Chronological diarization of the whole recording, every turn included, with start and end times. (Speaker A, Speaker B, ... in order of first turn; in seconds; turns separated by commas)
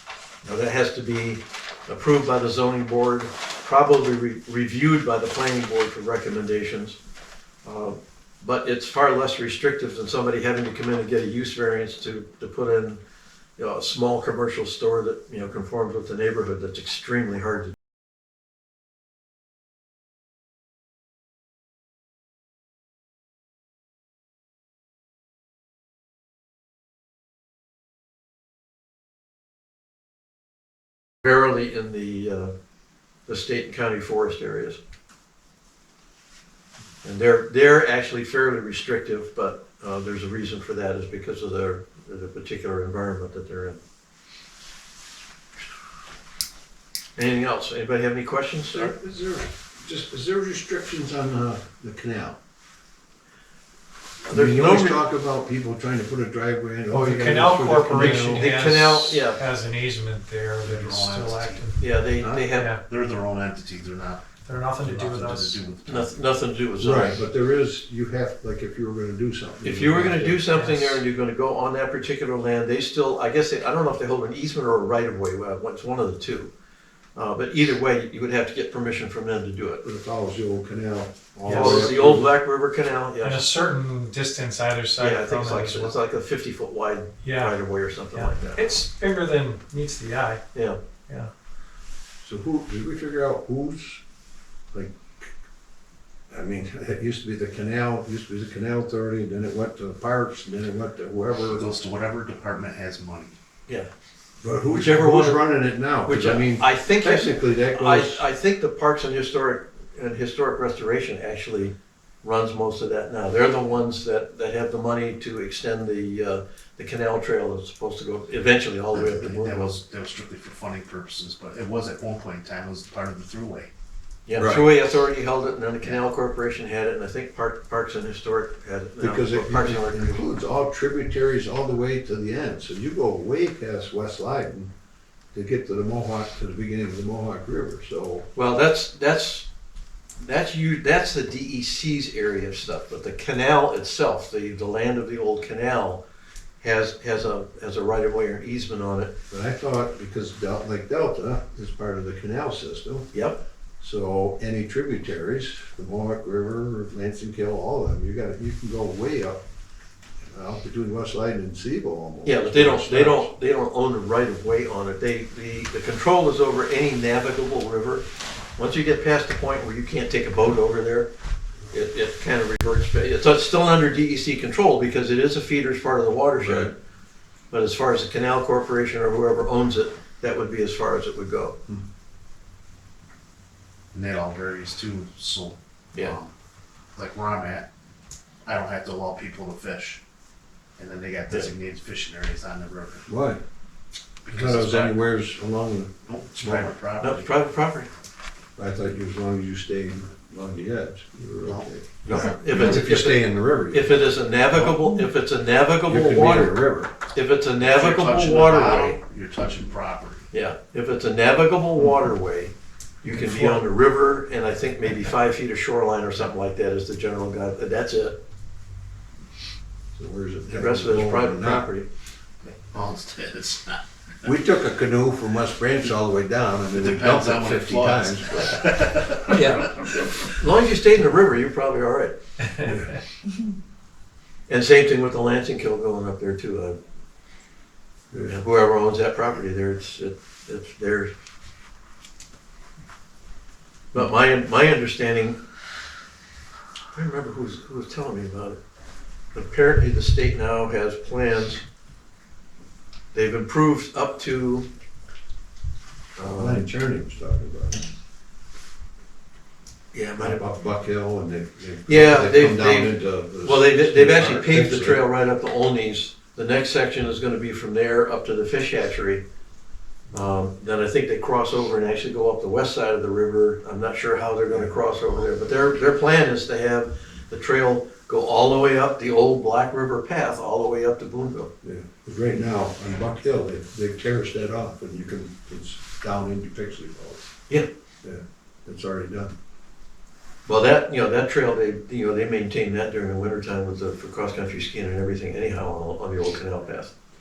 Speaker A: 0.4-7.0, Speaker A: 7.6-13.0, Speaker A: 13.6-17.7, Speaker A: 31.2-32.5, Speaker A: 33.3-34.8, Speaker A: 37.0-43.8, Speaker A: 47.1-48.9, Speaker B: 48.7-52.4, Speaker A: 54.3-55.0, Speaker B: 54.3-58.7, Speaker C: 56.9-62.8, Speaker A: 57.9-59.4, Speaker D: 60.6-61.7, Speaker A: 61.8-62.7, Speaker B: 62.2-62.5, Speaker D: 62.9-66.2, Speaker C: 64.4-65.6, Speaker A: 65.8-67.2, Speaker B: 66.8-70.5, Speaker A: 69.6-76.5, Speaker C: 70.5-71.0, Speaker A: 77.1-79.8, Speaker B: 79.8-82.3, Speaker C: 81.5-81.9, Speaker A: 81.5-83.5, Speaker C: 83.2-85.9, Speaker A: 85.0-88.6, Speaker C: 87.2-90.4, Speaker B: 92.2-94.0, Speaker B: 94.7-95.3, Speaker B: 96.3-101.7, Speaker D: 101.5-103.3, Speaker B: 104.4-108.2, Speaker A: 104.7-105.5, Speaker A: 106.0-119.8, Speaker D: 118.9-123.7, Speaker A: 124.2-130.2, Speaker B: 124.3-124.7, Speaker B: 129.0-134.7, Speaker B: 135.3-138.3, Speaker A: 138.3-139.5, Speaker A: 140.2-146.0, Speaker A: 146.6-149.1, Speaker B: 149.3-153.1, Speaker A: 153.1-153.4, Speaker B: 153.8-159.4, Speaker B: 160.2-163.3, Speaker A: 162.2-171.1, Speaker A: 171.7-176.7, Speaker B: 176.4-176.7, Speaker A: 177.5-181.6, Speaker D: 183.9-186.3, Speaker D: 186.9-187.7, Speaker D: 188.4-190.0, Speaker D: 190.8-193.1, Speaker B: 193.1-193.4, Speaker D: 194.2-195.0, Speaker B: 194.3-196.7, Speaker D: 196.1-197.3, Speaker A: 197.0-197.9, Speaker B: 198.6-204.0, Speaker D: 201.4-202.3, Speaker A: 202.0-206.6, Speaker B: 205.8-206.9, Speaker A: 207.1-209.0, Speaker D: 207.6-210.3, Speaker A: 210.3-218.2, Speaker B: 213.2-213.6, Speaker B: 219.9-221.7, Speaker A: 220.5-221.9, Speaker D: 222.4-223.8, Speaker B: 224.2-228.6, Speaker D: 226.7-230.1, Speaker A: 229.3-229.6, Speaker A: 230.4-232.2, Speaker B: 232.6-232.9, Speaker A: 234.5-236.8, Speaker A: 238.3-241.1, Speaker A: 243.9-245.4, Speaker A: 246.9-248.6, Speaker A: 249.3-251.6, Speaker A: 253.1-254.7, Speaker A: 256.2-256.6, Speaker B: 256.2-257.9, Speaker A: 259.9-260.4, Speaker B: 260.2-265.0, Speaker A: 261.9-269.2, Speaker A: 270.1-281.5, Speaker B: 281.6-287.3, Speaker B: 288.0-289.3, Speaker A: 290.4-296.9